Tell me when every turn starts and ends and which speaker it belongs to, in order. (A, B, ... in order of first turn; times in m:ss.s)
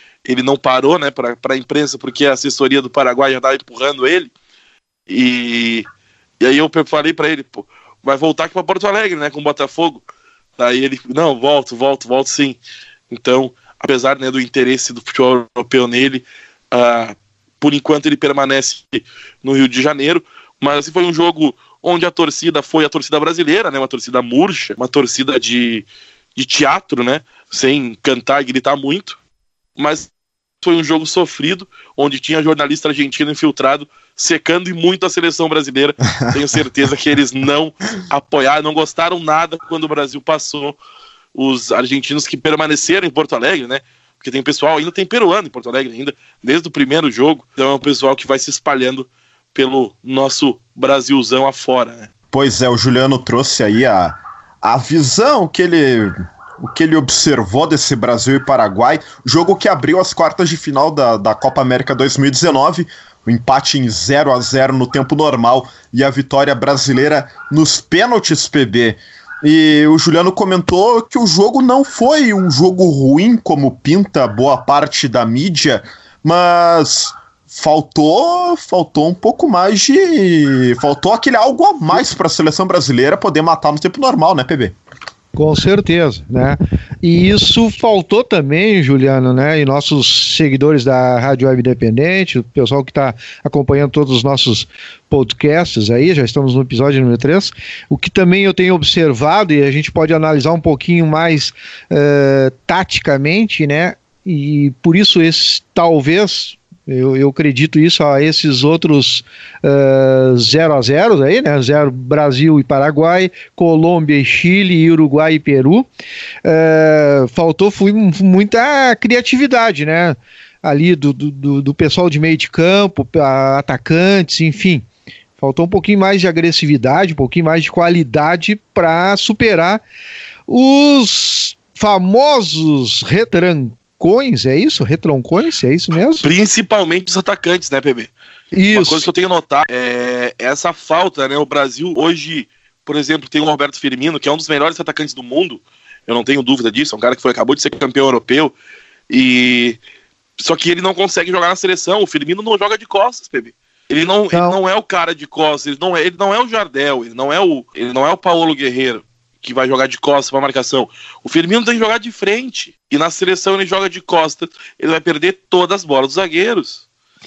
0:00.2-0:04.3 A
0:05.1-0:05.8 A
0:06.4-0:10.0 A
0:10.6-0:12.6 A
0:13.1-0:29.2 A
0:29.8-0:30.1 A
0:30.6-0:40.8 A
0:41.3-0:52.1 A
0:52.3-1:24.7 B
1:25.4-1:55.9 C
1:56.4-2:04.8 C
2:05.4-2:09.8 C
2:10.5-2:16.3 C
2:16.2-2:18.1 A
2:18.5-2:19.0 C
2:18.7-2:28.5 A
2:29.1-2:29.8 A
2:30.4-2:46.8 A
2:34.3-2:34.6 C